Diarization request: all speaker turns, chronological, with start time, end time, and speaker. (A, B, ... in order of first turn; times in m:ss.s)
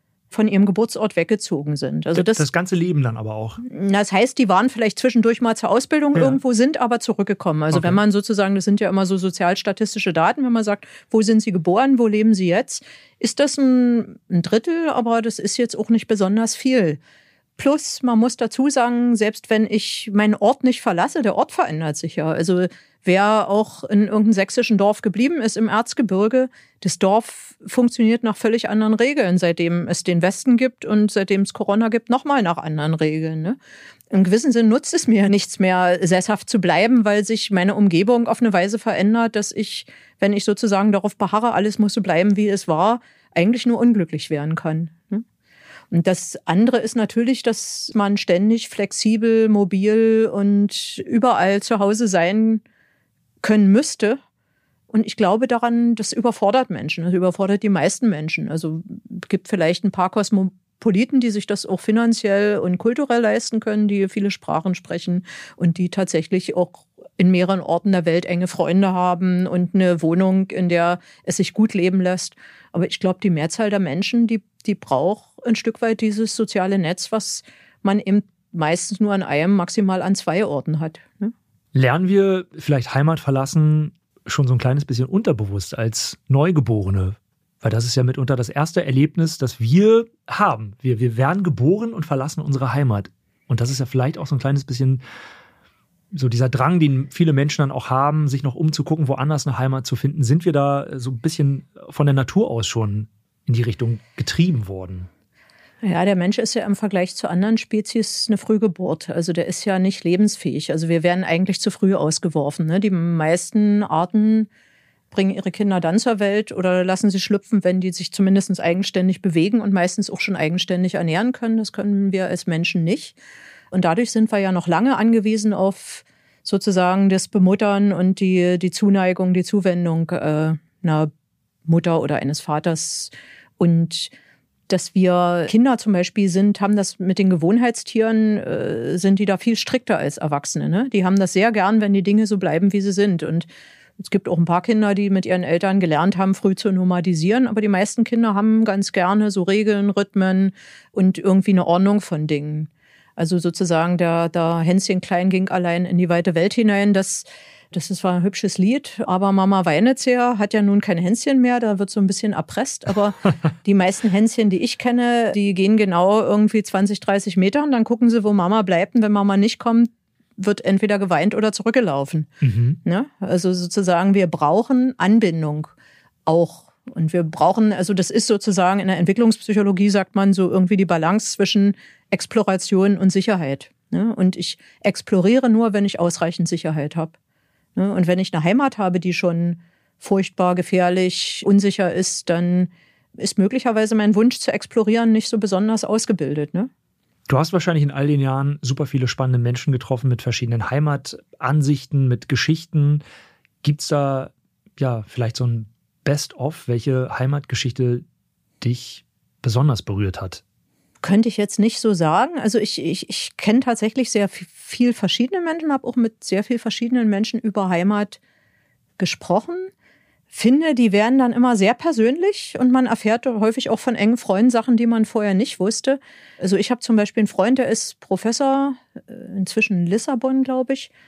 0:00.3-0:02.4 A
0:02.2-0:03.6 B
0:03.6-0:17.0 A
0:07.7-0:08.0 B
0:17.6-0:33.6 A
0:34.1-0:45.2 A
0:45.9-0:52.6 A
0:53.4-0:54.2 A
0:54.9-1:21.3 A
1:21.7-1:35.0 B
1:36.1-1:45.1 B
1:45.8-1:54.5 A
1:55.1-2:03.2 A
2:03.7-2:11.1 A
2:11.6-2:14.1 A
2:14.7-2:23.5 A
2:24.0-2:52.3 A
2:52.4-2:52.8 B
2:52.8-2:55.7 A
2:56.3-3:07.2 A
3:07.8-3:16.7 A
3:17.3-3:23.0 B
3:23.6-3:28.0 B
3:28.6-3:30.4 B
3:31.0-3:38.2 A
3:39.0-3:39.7 A
3:40.3-3:50.9 A